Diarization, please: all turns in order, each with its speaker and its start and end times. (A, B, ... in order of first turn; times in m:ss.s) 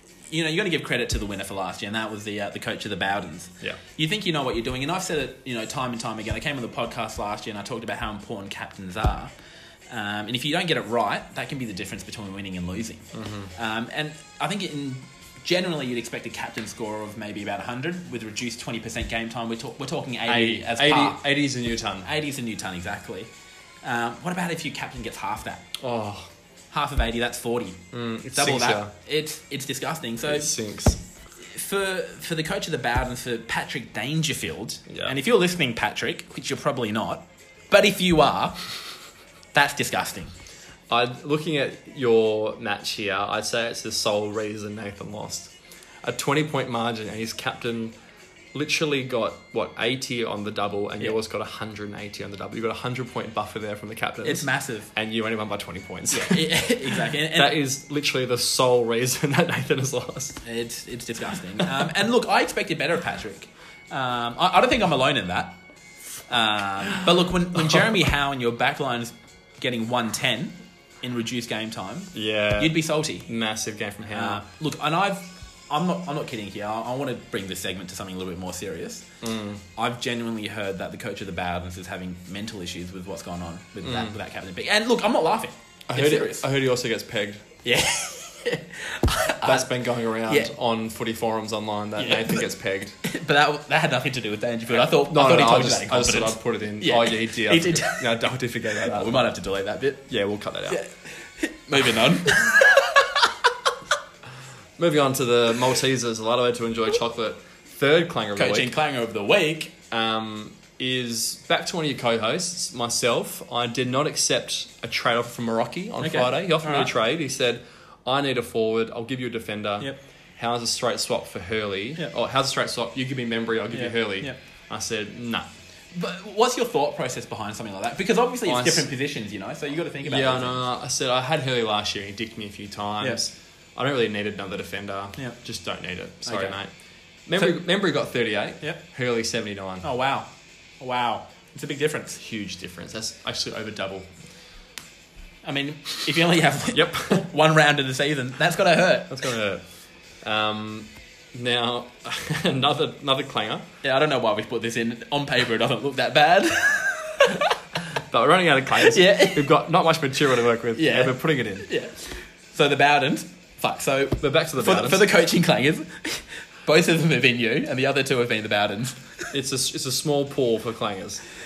0:00.3-0:09.3 A
0:09.9-0:21.2 A
0:13.1-0:13.5 B
0:20.3-0:22.1 B
0:22.0-0:23.3 A
0:23.8-0:25.7 A
0:25.8-0:26.3 B
0:26.7-0:27.8 A
0:27.9-0:28.9 B
0:28.3-0:30.5 A
0:30.3-0:31.0 B
0:31.4-0:38.6 A
0:34.9-0:35.1 B
0:39.5-0:40.3 A
0:40.9-0:48.0 B
0:48.5-1:00.4 B
0:54.2-0:54.9 A
0:56.1-0:57.6 A
1:00.4-1:05.6 A
1:06.3-1:13.3 A
1:12.1-1:14.4 B
1:14.1-1:19.1 A
1:19.2-1:19.6 B
1:19.8-1:26.5 A
1:23.8-1:24.2 B
1:25.9-1:27.4 B
1:27.6-1:29.7 A
1:29.4-1:33.0 B
1:30.2-1:30.5 A
1:32.0-1:32.4 A
1:33.0-1:38.1 A
1:34.7-1:39.3 B
1:38.7-1:40.1 A
1:40.1-1:40.8 B
1:40.7-1:43.4 A
1:44.8-1:48.7 B
1:48.4-1:49.8 A
1:49.9-2:05.5 B
1:56.0-1:56.9 A
2:03.7-2:04.4 A
2:05.9-2:10.6 A
2:08.5-2:08.9 B
2:10.0-2:16.7 B
2:16.3-2:16.6 A
2:17.3-2:19.9 B
2:19.8-2:20.3 A
2:20.8-2:22.2 A
2:22.2-2:24.1 B
2:25.4-2:29.2 A
2:26.7-2:27.3 B
2:29.1-2:29.6 B
2:30.2-2:33.7 B
2:33.8-2:37.5 A
2:37.9-2:41.7 B
2:38.8-2:39.5 A
2:40.8-2:49.3 A
2:44.2-2:45.1 B
2:49.3-2:51.2 B